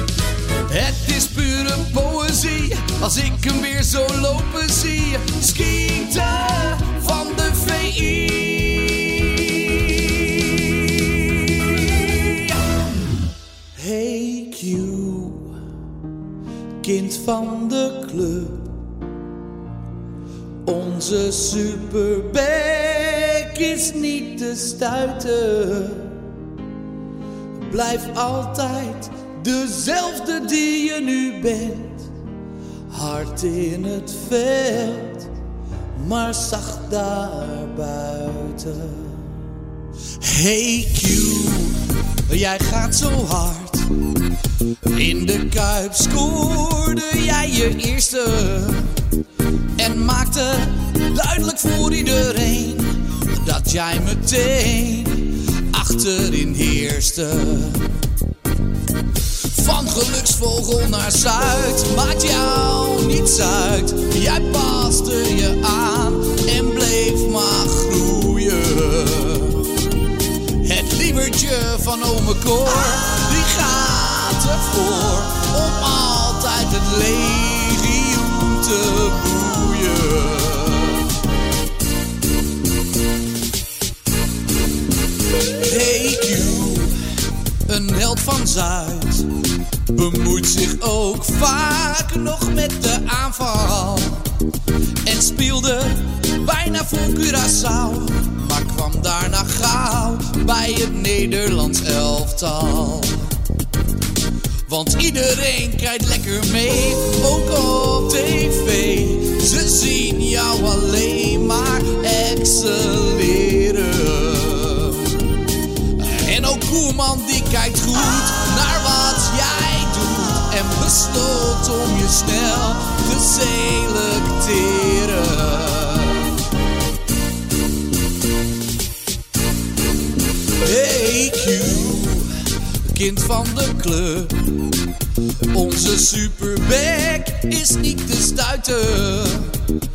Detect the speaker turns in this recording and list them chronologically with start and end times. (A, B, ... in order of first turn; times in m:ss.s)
0:00.7-0:12.6 A
0:13.8-0:15.5 A
0:16.8-0:18.7 A
0:20.6-0:26.2 A
0:27.7-0:32.1 A
0:32.9-0:35.3 A
0:36.0-0:39.3 A
0:40.2-0:43.9 A
0:44.9-0:48.9 A
0:49.8-0:57.8 A
0:59.4-1:09.7 A
1:10.6-1:21.0 A
1:25.6-1:27.0 A
1:27.7-1:29.3 A
1:29.9-1:34.2 A
1:35.0-1:43.3 A
1:44.7-1:55.2 A
1:56.0-2:06.3 A
2:10.6-2:12.3 A
2:12.9-2:14.3 A
2:15.5-2:19.5 A